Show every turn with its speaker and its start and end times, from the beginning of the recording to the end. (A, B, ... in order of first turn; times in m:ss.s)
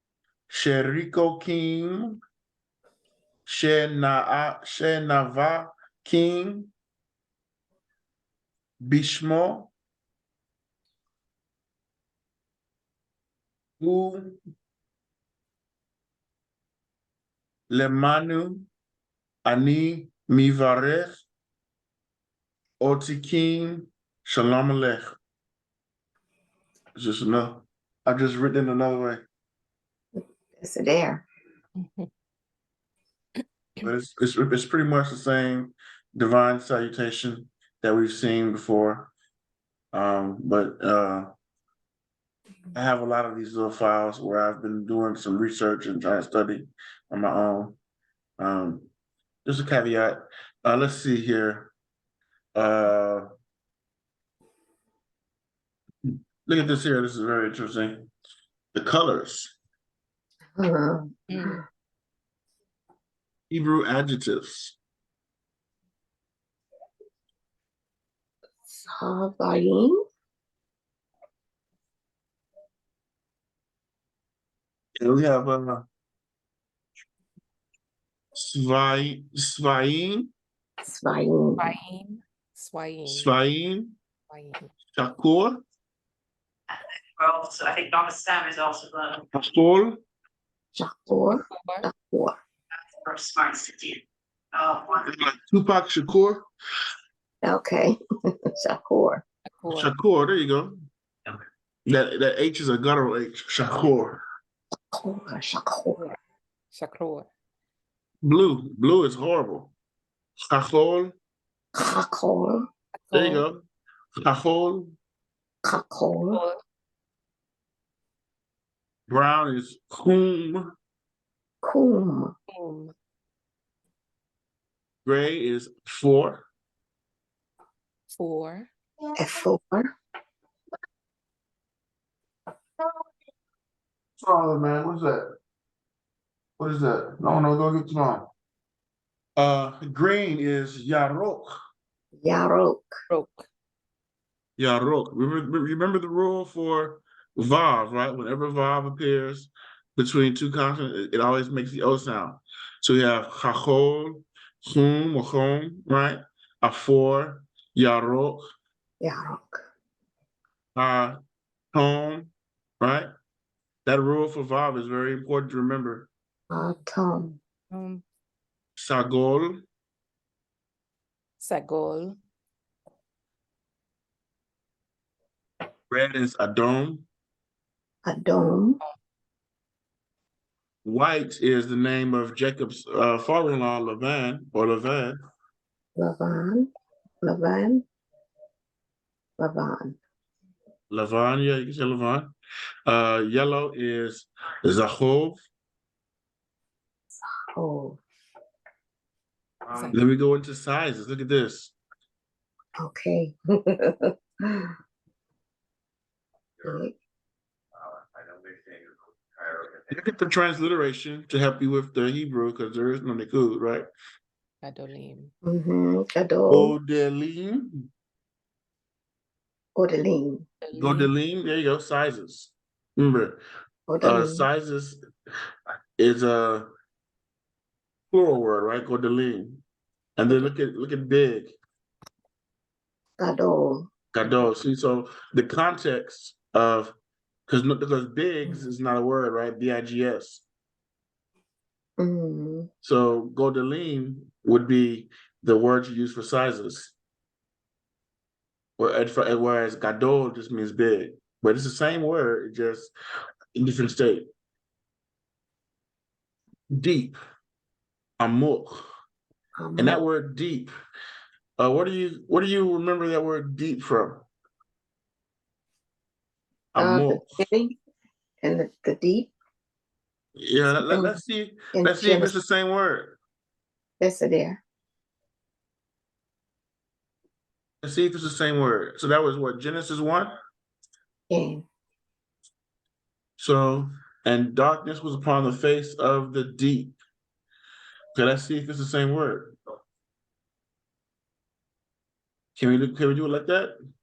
0:00.5-0:02.2 A
0:03.4-0:06.7 A
0:08.8-0:09.7 A
0:13.8-0:14.4 A
0:17.7-0:18.7 A
0:19.4-0:21.2 A
0:22.8-0:25.1 A
0:26.9-0:29.2 A
0:30.2-0:31.2 B
0:31.8-0:32.1 C
0:33.8-0:39.1 A
0:39.9-0:41.3 A
0:42.7-0:47.8 A
0:48.4-0:48.9 A
0:49.4-0:51.7 A
0:52.5-0:53.2 A
0:56.1-0:58.1 A
0:58.7-0:59.5 A
1:00.6-1:01.6 B
1:01.3-1:01.6 C
1:03.5-1:04.8 A
1:08.7-1:10.0 B
1:15.0-1:15.8 A
1:18.3-1:20.3 A
1:20.8-1:21.7 B
1:21.6-1:23.4 C
1:23.0-1:24.0 A
1:24.3-1:24.7 C
1:25.0-1:25.6 A
1:27.2-1:29.2 D
1:29.3-1:30.0 A
1:30.7-1:32.4 B
1:31.3-1:31.9 C
1:32.9-1:34.0 D
1:34.5-1:35.0 D
1:35.0-1:36.4 A
1:37.4-1:38.0 B
1:38.6-1:39.2 B
1:39.5-1:39.9 C
1:39.7-1:40.7 A
1:41.8-1:44.2 A
1:44.9-1:46.1 B
1:46.7-1:47.3 C
1:48.2-1:49.7 A
1:50.5-1:51.1 A
1:51.7-1:52.6 B
1:53.0-1:53.4 C
1:53.1-1:53.6 A
1:54.2-1:54.9 A
1:55.6-1:56.4 B
1:56.3-1:56.6 C
1:59.1-2:00.7 A
2:01.6-2:02.3 B
2:02.5-2:02.9 C
2:05.0-2:06.4 A
2:08.1-2:08.7 C
2:09.2-2:09.9 B
2:14.2-2:15.2 A
2:16.6-2:18.3 A
2:19.4-2:21.6 A
2:22.2-2:22.9 B
2:23.1-2:23.5 C
2:24.6-2:38.4 A
2:39.0-2:39.6 B
2:40.7-2:41.2 A
2:41.7-2:43.1 A
2:43.8-2:46.1 A
2:46.5-2:47.4 B
2:47.7-2:48.0 C
2:48.8-2:49.6 A
2:51.4-2:52.2 C
2:55.9-2:57.0 A
2:58.0-2:58.8 B
3:00.8-3:05.2 A
3:06.0-3:06.7 B
3:07.2-3:07.8 B
3:09.4-3:10.0 B
3:10.9-3:12.3 A
3:12.8-3:15.4 A
3:17.2-3:18.0 B
3:19.7-3:20.0 C
3:19.9-3:21.7 A
3:22.8-3:24.7 B
3:26.6-3:26.9 B
3:29.9-3:33.9 A
3:34.6-3:35.3 C
3:35.4-3:36.8 B
3:36.5-3:37.7 A
3:39.7-3:40.4 B
3:40.6-3:41.1 C
3:40.8-3:43.4 A
3:43.9-3:44.5 B
3:44.0-3:45.0 A
3:46.0-3:46.7 A
3:48.1-3:49.6 A
3:50.2-3:51.6 A
3:53.2-3:53.9 B
3:54.1-3:56.9 A
3:57.5-4:00.4 A
4:02.0-4:02.7 B
4:02.8-4:06.9 A
4:08.8-4:12.9 A
4:13.6-4:14.2 A
4:16.7-4:17.2 A
4:18.2-4:18.8 A
4:19.6-4:20.0 B
4:19.8-4:20.7 A
4:21.6-4:24.2 A
4:26.7-4:27.3 A
4:26.8-4:27.7 B
4:28.4-4:29.3 B
4:30.4-4:33.2 A
4:30.8-4:31.2 B
4:31.7-4:32.4 B
4:34.0-4:34.6 B
4:37.8-4:40.3 A
4:41.3-4:41.6 B
4:43.4-4:47.0 A
4:48.1-4:49.5 A
4:52.5-4:53.7 A